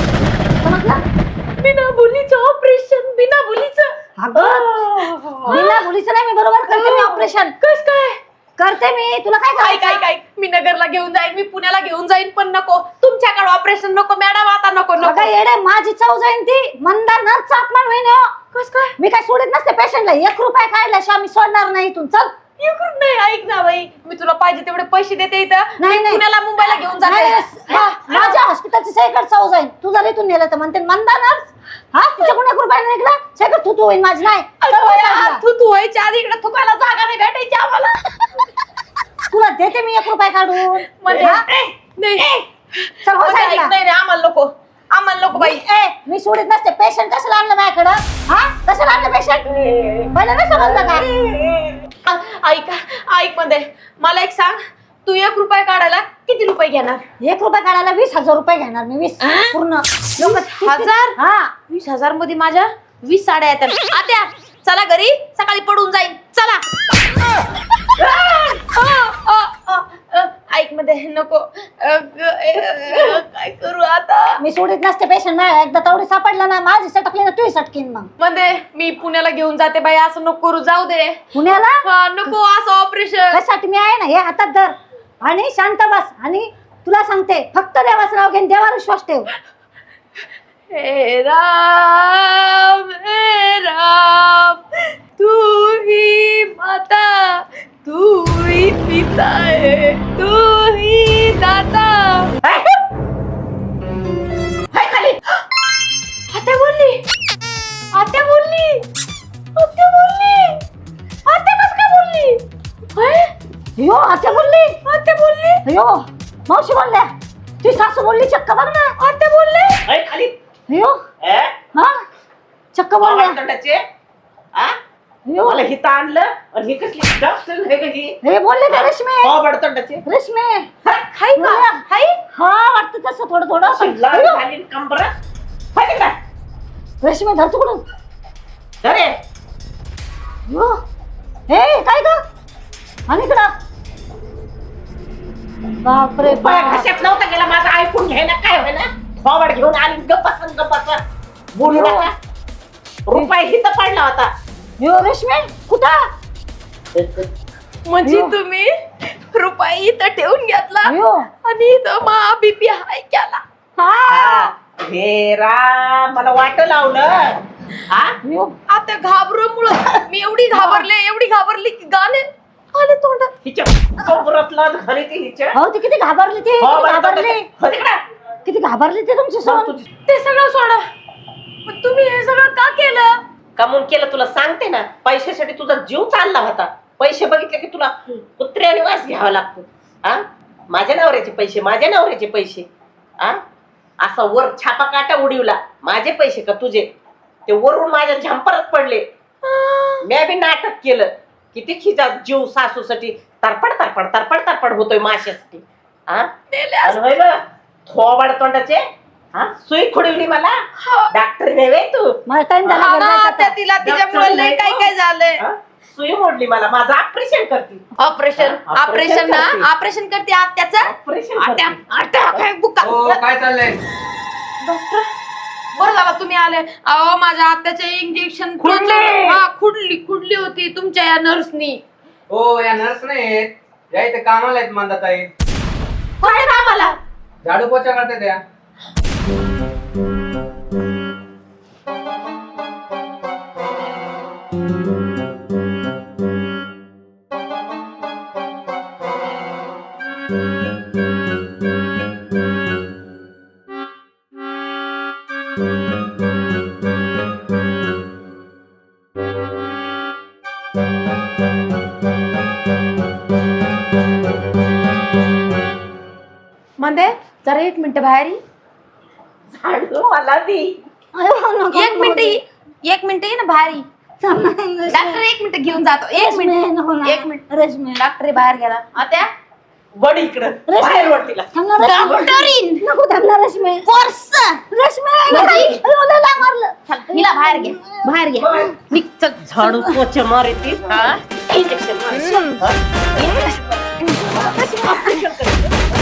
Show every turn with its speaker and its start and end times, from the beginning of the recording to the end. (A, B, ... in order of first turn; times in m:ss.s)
0:00.6-0:01.0 A
0:01.6-0:05.8 B
0:04.2-0:04.8 A
0:05.4-0:07.5 A
0:06.7-0:08.2 B
0:08.6-0:10.0 A
0:09.6-0:15.3 B
0:15.0-0:18.3 A
0:18.5-0:18.9 B
0:19.0-0:22.3 A
0:22.6-0:28.4 B
0:25.8-0:35.4 A
0:34.6-0:37.9 B
0:39.3-0:41.4 A
0:41.0-0:41.4 B
0:41.1-0:42.4 C
0:42.0-0:42.3 B
0:42.8-0:45.6 B
0:43.0-0:43.7 A
0:45.3-0:51.1 A
0:52.0-0:57.0 B
0:57.2-1:01.5 A
1:00.2-1:06.6 B
1:08.0-1:08.6 C
1:08.7-1:14.4 B
1:12.9-1:13.2 A
1:14.4-1:18.1 A
1:18.2-1:21.2 B
1:21.3-1:22.3 A
1:21.8-1:23.4 B
1:23.3-1:29.3 A
1:30.7-1:42.3 B
1:42.4-1:42.7 C
1:44.7-1:45.2 C
1:46.3-1:47.0 B
1:47.9-1:48.8 B
1:49.6-1:50.6 B
1:51.2-1:52.4 B
1:53.0-1:53.3 B
1:53.8-1:54.8 A
1:54.8-1:55.6 B
1:55.6-1:57.1 A
1:57.6-1:59.0 A
1:59.0-1:59.8 B
1:59.9-2:00.3 C
2:00.7-2:01.0 A
2:01.2-2:01.5 C
2:01.7-2:02.0 A
2:02.7-2:03.4 A
2:03.0-2:03.8 C
2:05.2-2:05.6 A
2:05.4-2:08.2 C
2:08.2-2:09.4 A
2:08.7-2:10.0 C
2:10.0-2:10.7 A
2:11.1-2:12.2 B
2:11.4-2:11.8 A
2:12.3-2:14.4 A
2:13.6-2:15.1 C
2:15.7-2:16.1 C
2:17.0-2:17.8 A
2:18.8-2:19.1 C
2:20.5-2:20.8 A
2:21.5-2:22.2 A
2:23.1-2:23.5 A
2:25.8-2:26.9 A
2:26.2-2:31.0 C
2:31.5-2:32.2 C
2:31.7-2:32.1 A
2:33.1-2:34.3 C
2:34.8-2:36.0 A
2:37.0-2:37.3 C
2:37.8-2:38.7 B
2:38.0-2:38.4 A
2:39.3-2:43.4 B
2:40.8-2:41.3 A
2:43.8-2:44.5 A
2:44.1-2:48.2 C
2:48.2-2:48.5 A
2:48.7-2:53.3 B
2:50.5-2:50.8 A
2:53.4-2:55.6 C
2:55.5-2:57.4 A
2:56.6-2:58.0 C
2:58.4-2:59.7 A
2:59.4-2:59.8 C
3:00.0-3:00.8 B
3:01.6-3:03.2 B
3:03.6-3:12.7 C
3:14.0-3:16.9 C
3:17.5-3:19.0 C
3:19.5-3:20.0 B
3:20.0-3:26.3 C
3:26.5-3:27.1 B
3:26.8-3:28.8 C
3:29.3-3:30.5 C
3:30.8-3:31.1 B
3:31.1-3:32.2 C
3:32.3-3:33.6 A
3:32.7-3:35.4 B
3:33.8-3:37.8 C
3:38.0-3:43.2 B
3:38.4-3:39.7 C
3:40.8-3:42.4 C
3:42.8-3:43.8 D
3:44.6-3:45.0 B
3:45.8-3:51.8 B
3:48.6-3:49.4 C
3:52.3-3:55.3 D
3:56.2-3:56.9 B
3:56.2-3:56.9 A
3:57.4-3:58.4 D
4:26.8-4:28.4 B
4:29.5-4:30.8 C
4:31.1-4:32.4 A
4:31.7-4:33.8 B
4:34.2-4:35.2 A
4:34.9-4:37.4 B
4:36.1-4:38.1 A
4:37.9-4:39.3 B
4:40.0-4:41.5 C
4:40.7-4:48.8 A
4:41.8-4:42.8 B
4:43.8-4:44.6 B
4:45.3-4:45.8 B
4:46.9-4:49.4 B
4:48.4-4:48.8 C
4:49.4-4:52.8 C
4:49.6-4:49.9 A
4:52.1-4:52.6 B
4:53.2-4:53.5 A
4:53.2-4:53.4 B
4:54.0-4:55.2 A
4:54.3-4:55.7 C